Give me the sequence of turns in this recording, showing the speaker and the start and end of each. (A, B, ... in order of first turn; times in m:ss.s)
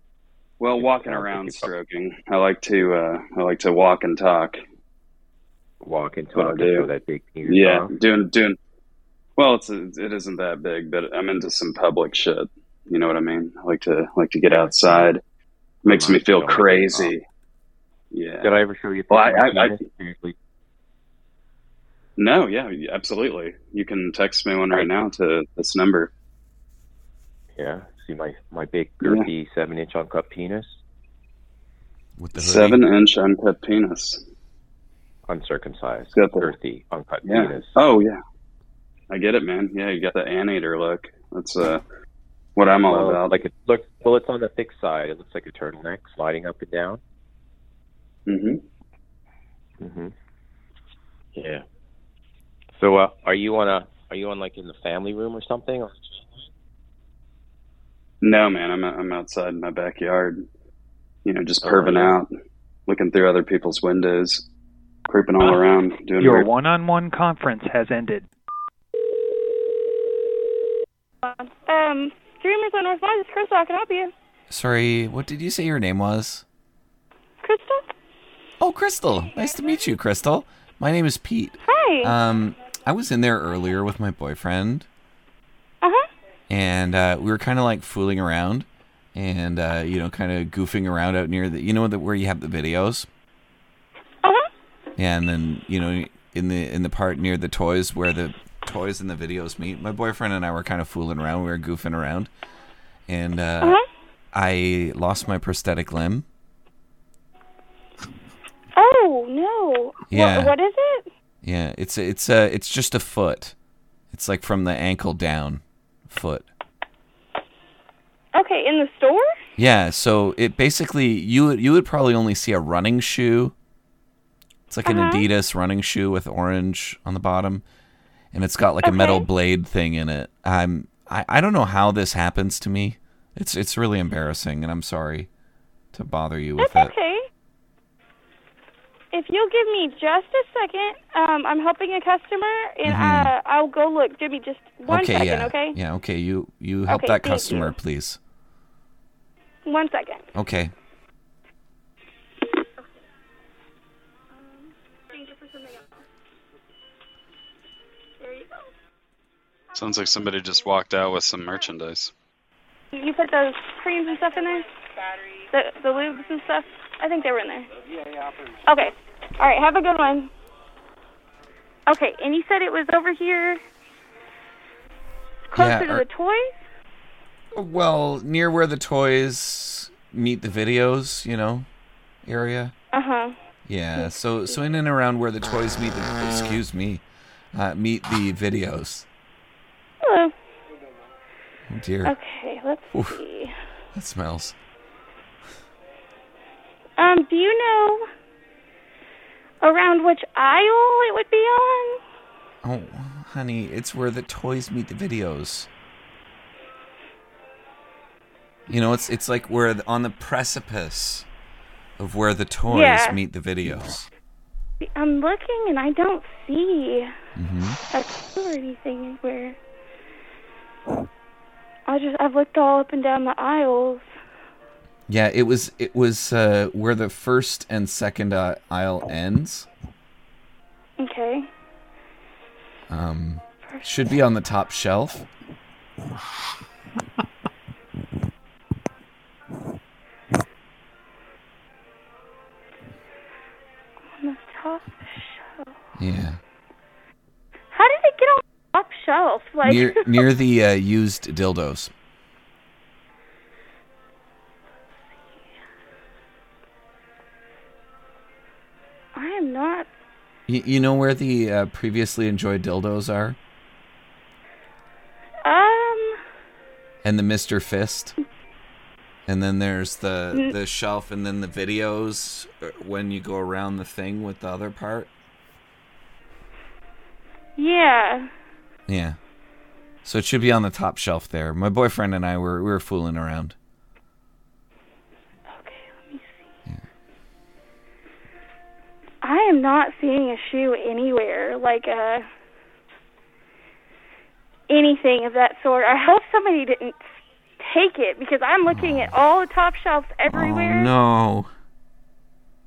0:00.6-0:04.6 A
0:00.8-0:01.7 B
0:05.8-0:07.9 B
0:06.3-0:06.9 A
0:07.4-0:08.6 A
0:09.4-0:15.2 A
0:14.5-0:15.1 B
0:15.9-0:17.2 A
0:15.9-0:17.1 B
0:18.1-0:19.8 A
0:18.4-0:20.4 B
0:22.2-0:26.1 A
0:27.6-0:30.8 B
0:32.2-0:32.8 C
0:32.4-0:34.2 A
0:35.3-0:37.8 B
0:36.1-0:36.5 A
0:37.2-0:38.2 A
0:39.1-0:41.8 A
0:42.6-0:43.4 A
0:42.9-0:47.0 B
0:48.3-0:48.6 A
0:49.8-0:50.1 B
0:51.4-0:51.6 B
0:52.8-0:56.0 B
0:58.2-1:00.4 A
1:01.2-1:02.3 A
1:01.6-1:02.2 B
1:02.9-1:04.4 A
1:05.1-1:06.5 A
1:06.2-1:08.2 D
1:11.2-1:14.1 E
1:14.5-1:16.4 C
1:17.4-1:17.9 E
1:18.6-1:24.9 C
1:21.6-1:22.1 E
1:25.8-1:26.1 E
1:26.5-1:33.1 C
1:34.2-1:34.5 E
1:35.0-1:42.3 C
1:43.1-1:43.8 C
1:44.3-1:46.2 C
1:48.8-1:51.1 E
1:50.1-1:50.5 C
1:51.4-1:53.5 C
1:54.1-1:56.5 C
1:58.4-1:59.4 E
1:59.6-2:03.5 C
2:04.7-2:07.6 C
2:04.8-2:05.2 E
2:08.3-2:15.3 C
2:08.8-2:09.3 E
2:15.9-2:16.9 C
2:16.6-2:17.2 E
2:19.1-2:25.8 E
2:22.8-2:23.3 C
2:24.9-2:28.2 C
2:26.9-2:27.7 E
2:29.6-2:30.2 E
2:30.4-2:30.7 C
2:38.2-2:38.6 E
2:39.8-2:42.1 A
2:42.9-2:44.7 E
2:45.5-2:47.7 E
2:48.7-2:50.3 E
2:51.9-2:53.6 E
2:55.5-2:56.6 E
2:55.6-2:56.0 C
2:57.5-3:01.7 C
3:02.2-3:02.7 C
3:02.9-3:03.4 E
3:03.6-3:07.0 C
3:04.0-3:04.6 E
3:07.5-3:09.0 C
3:10.0-3:10.3 E
3:11.7-3:12.1 C
3:12.0-3:13.5 E
3:12.9-3:13.2 C
3:13.9-3:14.6 C
3:17.0-3:18.0 E
3:19.6-3:22.0 E
3:22.6-3:25.7 C
3:28.7-3:31.2 C
3:32.0-3:34.1 C
3:32.7-3:33.2 E
3:34.9-3:37.1 E
3:37.4-3:37.8 C
3:37.9-3:39.6 E
3:41.9-3:44.1 E
3:45.1-3:49.7 C
3:51.0-3:51.5 E
3:52.9-3:55.3 C
4:04.2-4:05.7 E
4:06.0-4:06.4 C
4:07.7-4:10.2 E
4:09.6-4:11.9 C
4:19.1-4:19.9 E
4:20.5-4:23.4 C
4:25.4-4:26.2 E
4:27.0-4:28.1 C
4:29.2-4:35.1 C
4:37.6-4:38.3 E
4:38.9-4:39.2 C
4:40.0-4:43.6 C
4:45.5-4:46.4 E
4:49.2-4:52.2 E
4:54.7-4:57.1 E
4:57.6-5:00.9 E
4:58.7-4:59.1 C
5:00.3-5:01.5 C